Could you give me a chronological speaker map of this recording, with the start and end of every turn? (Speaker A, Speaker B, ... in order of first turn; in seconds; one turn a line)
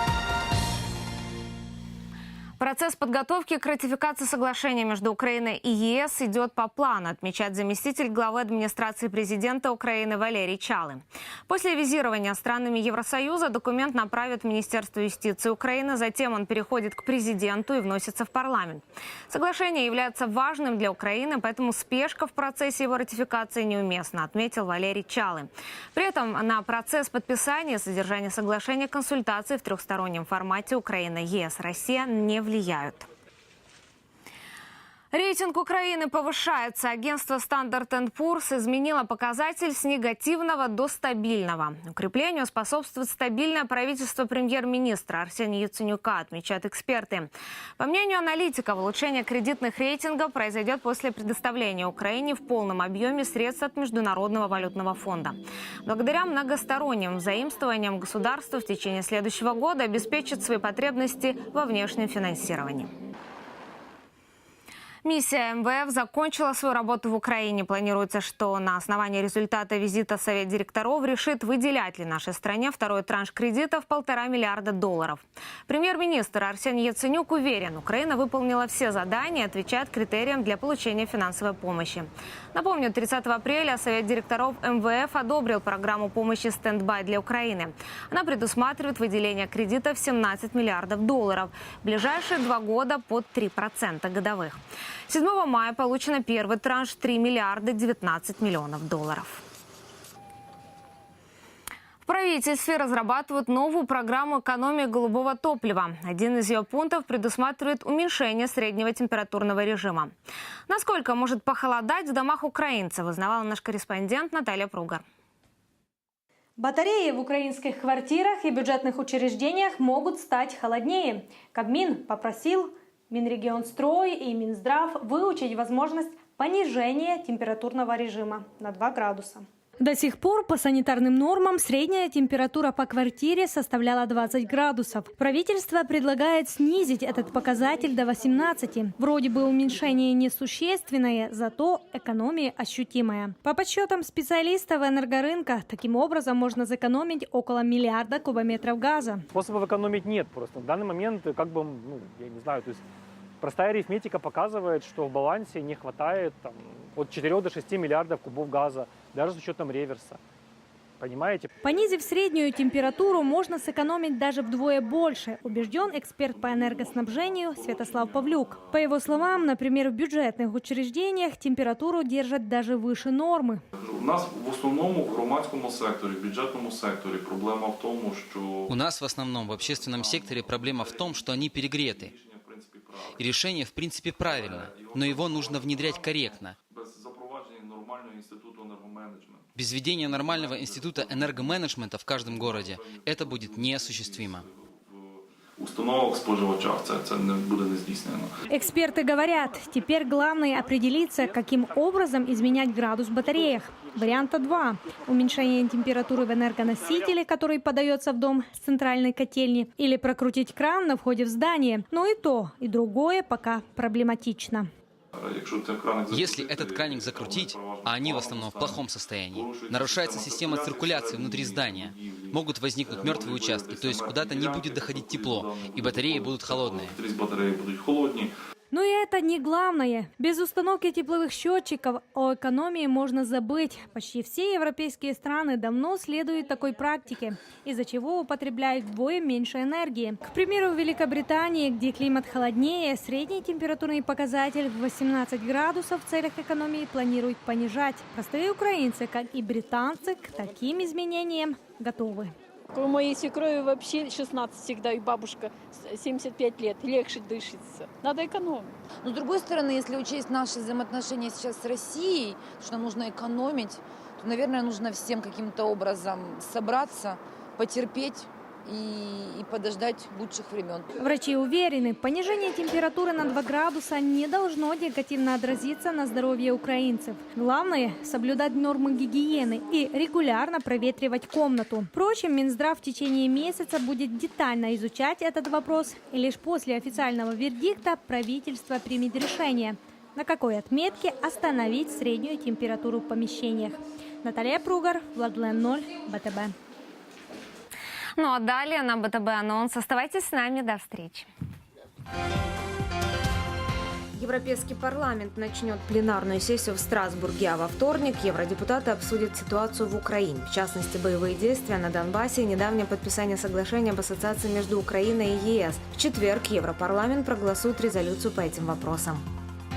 Speaker A: 2.6-33.1
Speaker A: 35.1-62.9
Speaker A: 65.0-94.6
Speaker A: 95.1-99.4
Speaker A: 102.0-110.1
Speaker A: 110.7-115.0
Speaker B: 116.6-149.3
Speaker C: 149.3-152.8
Speaker C: 153.4-160.2
Speaker C: 161.0-161.5
Speaker B: 161.6-173.6
Speaker D: 166.3-169.5
Speaker D: 173.7-178.8
Speaker E: 178.7-182.1
Speaker D: 179.4-183.3
Speaker E: 183.2-186.6
Speaker D: 184.2-191.7
Speaker E: 189.6-194.4
Speaker D: 192.2-198.3
Speaker B: 198.5-214.7
Speaker D: 215.1-228.3
Speaker E: 216.1-226.9
Speaker B: 228.7-252.3
Speaker F: 252.7-258.7
Speaker G: 259.0-270.9
Speaker B: 271.0-296.5
Speaker A: 298.2-301.3
Speaker A: 304.1-319.2